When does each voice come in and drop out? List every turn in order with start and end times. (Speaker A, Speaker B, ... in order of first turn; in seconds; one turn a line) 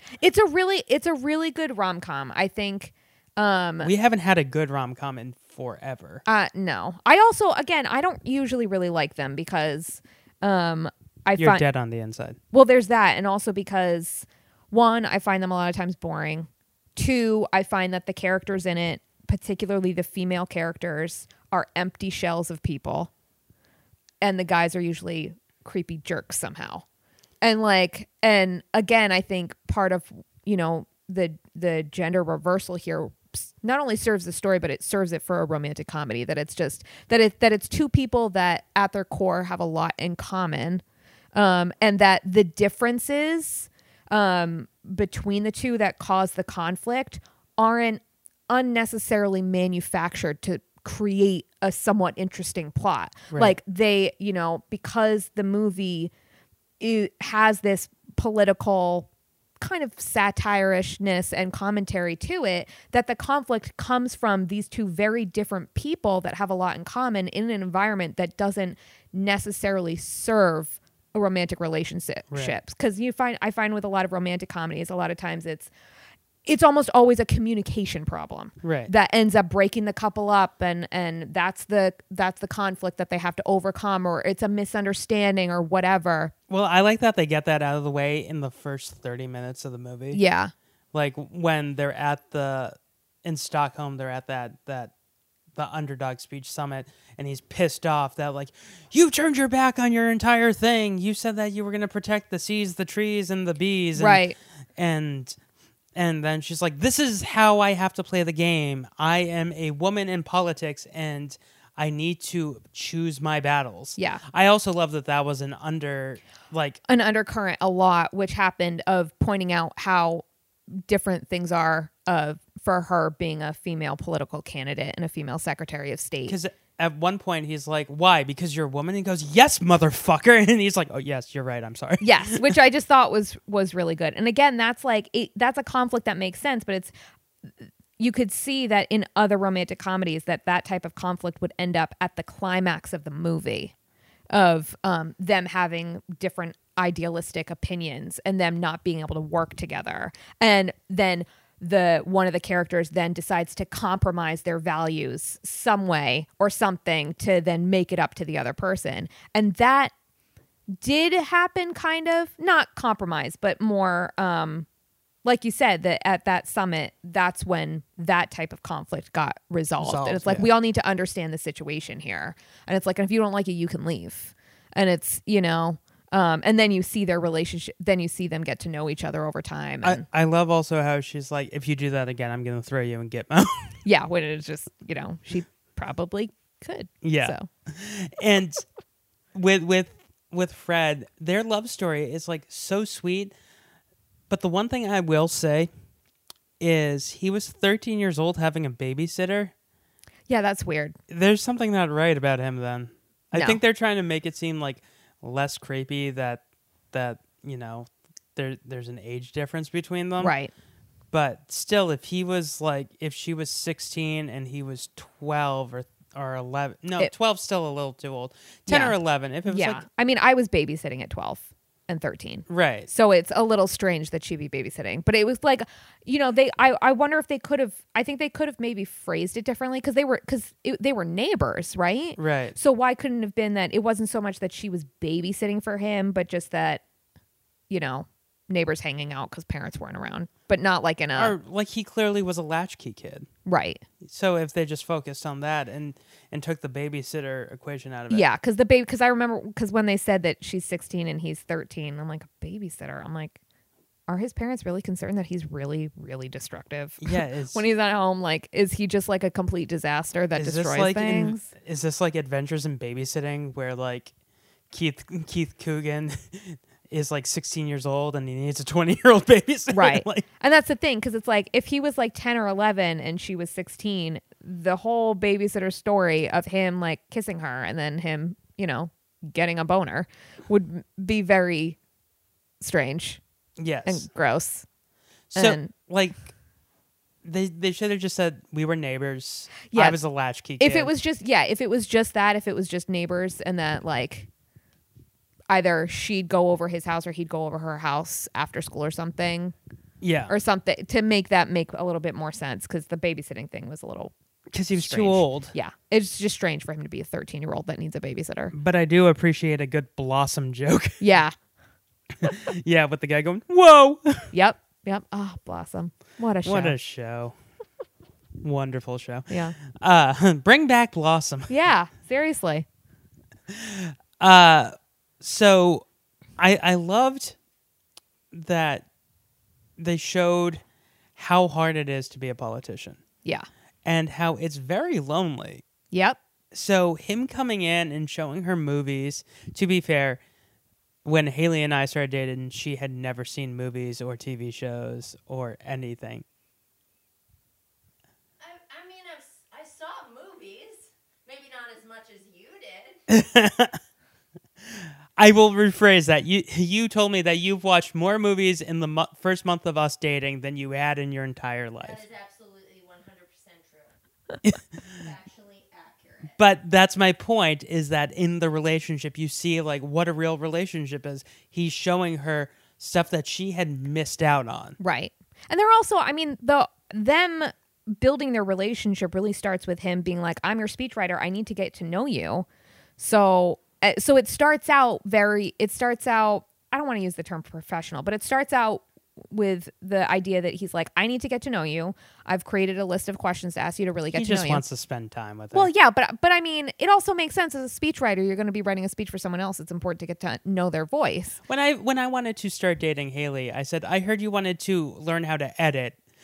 Speaker A: 0.2-3.9
Speaker B: 3.8-6.2
Speaker A: 6.3-11.6
Speaker B: 11.4-12.4
Speaker A: 12.5-23.1
Speaker A: 24.2-26.8
Speaker A: 27.4-40.8
Speaker A: 41.3-56.1
Speaker A: 56.8-59.1
Speaker A: 59.6-75.7
Speaker B: 72.3-72.6
Speaker A: 76.5-86.3
Speaker B: 78.6-78.9
Speaker B: 86.5-90.2
Speaker A: 90.1-90.5
Speaker B: 90.9-94.9
Speaker B: 95.5-104.2
Speaker A: 104.0-104.4
Speaker B: 104.8-105.4
Speaker B: 106.0-116.8
Speaker A: 114.0-114.2
Speaker A: 116.9-126.4
Speaker B: 126.3-132.6
Speaker A: 132.0-136.9
Speaker A: 138.0-143.7
Speaker A: 144.3-159.9
Speaker A: 160.8-164.7
Speaker A: 165.2-180.0
Speaker B: 169.8-170.5
Speaker B: 179.8-183.8
Speaker A: 183.8-187.5
Speaker B: 187.0-188.7
Speaker B: 189.3-193.3
Speaker B: 194.3-195.7
Speaker B: 196.6-199.5
Speaker A: 200.3-201.0
Speaker B: 201.1-210.3
Speaker A: 203.3-203.6
Speaker A: 210.2-210.5
Speaker B: 211.1-219.8
Speaker A: 218.7-236.8
Speaker B: 222.5-222.9
Speaker B: 232.2-232.6
Speaker A: 237.7-241.3
Speaker B: 241.2-243.3
Speaker A: 243.5-243.8
Speaker B: 244.0-248.2
Speaker A: 248.1-253.4
Speaker A: 254.1-261.5
Speaker B: 257.0-257.6
Speaker B: 260.4-264.1
Speaker B: 264.7-270.2
Speaker A: 269.7-281.8
Speaker A: 282.6-283.2
Speaker B: 283.6-284.1
Speaker A: 283.9-284.6
Speaker B: 285.3-286.3
Speaker A: 285.4-285.7
Speaker B: 287.2-290.9
Speaker A: 289.7-290.0
Speaker A: 290.6-294.3
Speaker A: 295.5-299.5
Speaker B: 300.0-300.3
Speaker A: 300.3-304.1
Speaker B: 304.5-305.5
Speaker A: 304.8-308.5
Speaker B: 308.5-311.0
Speaker A: 311.0-311.3
Speaker B: 312.2-314.3
Speaker A: 314.3-316.8
Speaker B: 316.4-317.4
Speaker B: 318.4-321.5
Speaker A: 319.3-319.6
Speaker A: 321.5-322.7
Speaker B: 323.5-325.9
Speaker B: 326.4-327.4
Speaker B: 328.3-328.9
Speaker B: 329.8-330.6
Speaker B: 331.2-333.0
Speaker B: 333.9-335.6
Speaker A: 335.9-336.2
Speaker B: 336.5-340.2
Speaker B: 341.1-346.2
Speaker C: 348.4-353.0
Speaker B: 353.1-353.8
Speaker B: 355.2-362.0
Speaker C: 361.8-363.9
Speaker B: 364.4-364.8
Speaker C: 364.9-366.4
Speaker B: 366.4-374.8
Speaker A: 374.8-382.5
Speaker A: 383.0-394.6
Speaker B: 394.1-395.7
Speaker A: 395.5-401.4
Speaker B: 401.5-406.0